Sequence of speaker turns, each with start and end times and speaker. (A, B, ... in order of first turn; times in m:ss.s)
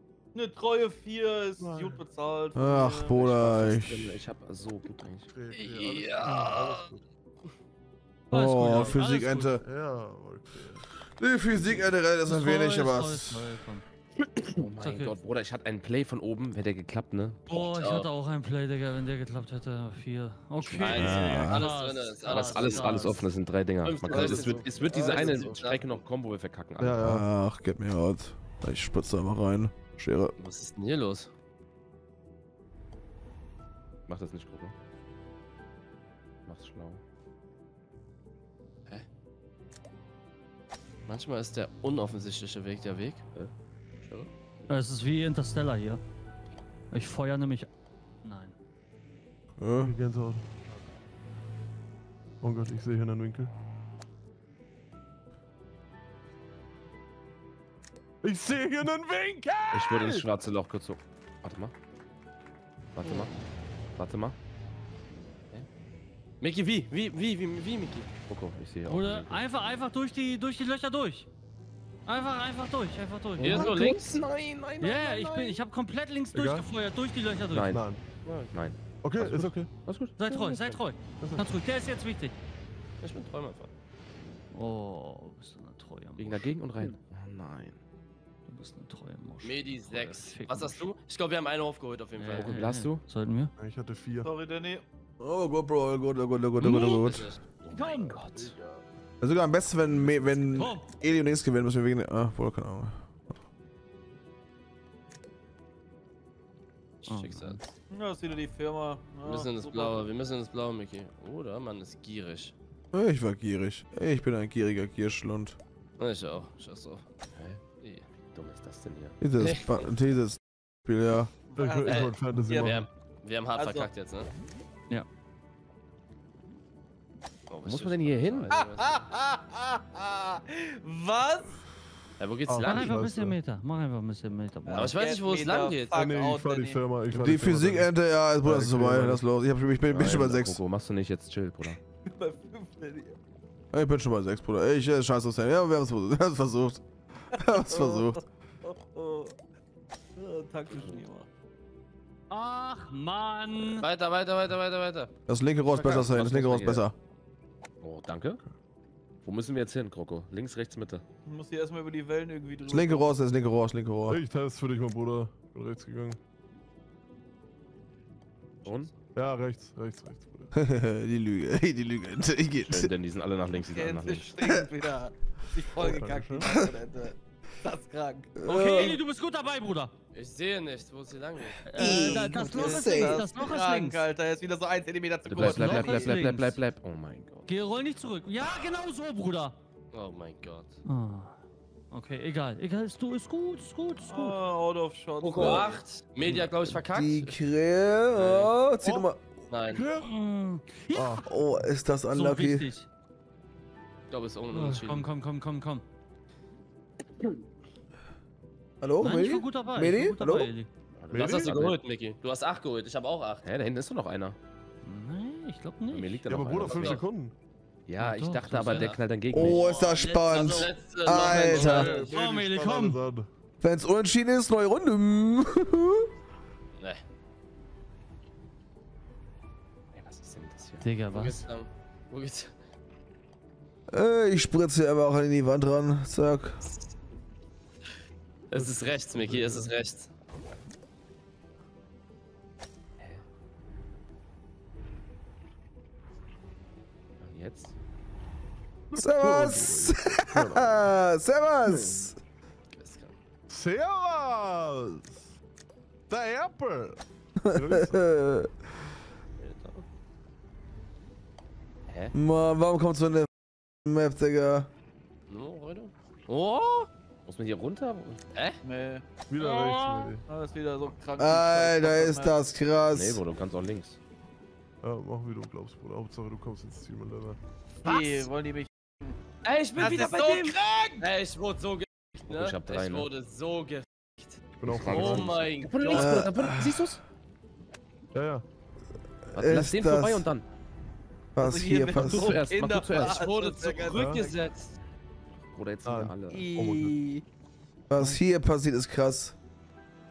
0:00.3-0:03.3 A
0:01.6-0:02.0 B
0:02.6-0:04.2 C
0:03.2-0:05.3 D
0:05.3-0:07.0 B
0:05.5-0:06.9 E
0:06.2-0:06.6 F
0:08.3-0:09.6 F
0:08.3-0:09.6 C
0:08.7-0:10.9 B
0:11.1-0:13.5 C
0:11.6-0:11.9 B
0:12.2-0:13.8 F
0:14.5-0:17.4 D
0:14.8-0:15.2 F
0:17.5-0:23.2 F
0:17.5-0:18.1 E
0:20.6-0:21.5 D
0:20.6-0:23.2 E
0:21.0-0:21.7 C
0:22.2-0:27.2 D
0:23.8-0:26.0 E
0:24.1-0:25.6 B
0:26.8-0:27.3 B
0:27.0-0:30.3 C
0:30.4-0:31.3 E
0:34.1-0:34.7 D
0:36.5-0:37.0 D
0:41.1-0:43.3 E
0:44.0-0:44.3 E
0:44.7-0:46.0 F
0:46.9-0:47.7 F
0:48.2-0:48.6 F
0:49.6-0:50.0 C
0:49.8-0:50.5 B
0:52.4-0:53.5 B
0:58.2-1:00.2 B
0:59.7-1:01.7 D
1:03.0-1:03.4 D
1:04.0-1:04.4 D
1:06.4-1:08.1 E
1:08.3-1:09.4 D
1:08.9-1:11.3 F
1:12.1-1:14.0 F
1:13.4-1:14.2 E
1:13.4-1:15.6 D
1:14.8-1:17.8 F
1:16.3-1:16.7 B
1:17.5-1:17.8 D
1:17.7-1:18.0 B
1:18.2-1:18.5 E
1:18.5-1:20.8 D
1:19.0-1:19.7 B
1:20.2-1:22.4 F
1:21.2-1:21.5 B
1:23.0-1:23.7 E
1:24.5-1:26.6 F
1:26.2-1:27.8 D
1:28.5-1:30.9 F
1:29.4-1:32.6 E
1:32.2-1:33.5 F
1:32.4-1:33.0 D
1:33.6-1:34.3 B
1:34.2-1:34.8 A
1:35.2-1:37.3 C
1:36.6-1:37.4 E
1:36.6-1:37.1 D
1:37.6-1:38.6 D
1:37.7-1:38.2 F
1:39.2-1:43.0 C
1:40.6-1:40.9 F
1:47.0-1:47.6 E
1:47.1-1:47.7 F
1:47.9-1:50.1 A
1:49.2-1:52.5 E
1:52.9-1:55.6 C
1:56.0-1:57.0 E
1:57.4-1:57.6 D
1:57.8-1:58.1 E
1:58.3-1:59.2 D
1:59.2-2:01.3 C
1:59.4-1:59.8 E
2:01.5-2:02.8 A
2:01.6-2:02.9 B
2:01.8-2:04.3 E
2:03.6-2:03.9 A
2:07.5-2:08.9 E
2:07.7-2:08.5 D
2:08.5-2:11.6 A
2:12.2-2:12.9 E
2:12.5-2:13.4 B
2:12.6-2:15.0 F
2:14.7-2:16.8 A
2:14.7-2:16.0 E
2:15.9-2:17.9 B
2:17.1-2:20.6 C
2:18.4-2:19.2 B
2:19.9-2:21.8 D
2:22.0-2:23.2 A
2:23.7-2:28.2 C
2:27.4-2:29.4 A
2:30.2-2:31.3 A
2:32.3-2:33.9 F
2:33.6-2:35.1 E
2:35.3-2:37.0 C
2:35.7-2:36.9 D
2:37.8-2:38.4 D
2:39.2-2:41.0 D
2:41.2-2:43.2 A
2:42.7-2:44.2 C
2:44.1-2:46.2 B
2:48.6-2:48.9 D
2:49.2-2:50.5 B
2:50.5-2:52.9 C
2:52.6-2:54.4 D
2:53.5-2:59.0 A
2:55.8-2:56.5 B
2:56.4-2:56.7 C
2:58.4-2:59.0 C
2:58.4-2:59.9 F
3:00.1-3:01.6 E
3:01.6-3:04.0 F
3:01.8-3:03.3 C
3:01.8-3:06.2 A
3:05.3-3:07.5 D
3:05.4-3:06.6 F
3:07.5-3:09.6 F
3:09.9-3:10.8 E
3:10.8-3:11.4 F
3:11.9-3:14.4 F
3:14.1-3:15.8 A
3:15.2-3:17.4 E
3:15.4-3:15.7 C
3:16.6-3:19.2 C
3:18.1-3:18.5 E
3:18.8-3:19.1 B
3:19.5-3:19.8 E
3:19.7-3:20.1 B
3:20.0-3:21.3 F
3:20.9-3:21.3 B
3:21.2-3:22.7 C
3:22.1-3:22.9 F
3:24.1-3:25.1 E
3:24.5-3:25.8 F
3:28.8-3:30.5 C
3:29.0-3:30.7 F
3:31.0-3:31.8 D
3:31.1-3:31.7 B
3:31.1-3:33.5 E
3:33.4-3:34.4 D
3:34.8-3:36.3 F
3:35.9-3:37.1 D
3:36.3-3:37.3 B
3:36.6-3:37.0 E
3:37.9-3:39.7 D
3:38.0-3:40.7 F
3:38.7-3:39.0 E
3:39.3-3:41.9 C
3:40.3-3:42.1 E
3:41.1-3:43.3 B
3:41.6-3:43.0 F
3:43.6-3:46.1 C
3:49.9-3:50.9 D
3:50.8-3:51.4 F
3:51.1-3:52.5 E
3:53.9-3:56.6 C
3:56.6-3:56.9 E
3:58.5-4:00.1 E
3:58.5-3:59.7 B
4:07.2-4:07.8 D
4:08.9-4:10.9 B
4:09.0-4:12.2 C
4:12.7-4:13.2 E
4:13.5-4:15.4 B
4:16.1-4:18.0 B
4:17.4-4:18.5 C
4:19.4-4:19.8 E
4:22.1-4:24.7 C
4:25.3-4:26.9 E
4:27.3-4:28.2 D
4:28.3-4:28.6 E
4:28.6-4:29.0 A
4:29.3-4:30.2 B
4:29.4-4:30.2 F
4:30.3-4:32.4 A
4:31.2-4:33.2 C
4:32.9-4:34.0 D
4:34.8-4:37.4 B
4:37.8-4:39.2 A
4:37.8-4:38.3 E
4:39.4-4:46.2 E
4:39.8-4:41.1 A
4:42.3-4:43.1 D
4:44.6-4:45.3 B
4:44.7-4:47.0 D
4:45.9-4:47.0 C
4:48.1-4:48.4 B
4:49.3-4:50.3 C
4:49.3-4:50.5 D
4:51.4-4:52.4 C
4:51.4-4:54.4 A
4:51.9-4:53.3 D
4:52.9-4:54.7 E
4:53.9-4:54.2 B
4:55.5-4:56.5 D
4:55.8-4:57.0 B
4:56.3-4:57.2 A
4:57.9-4:59.4 C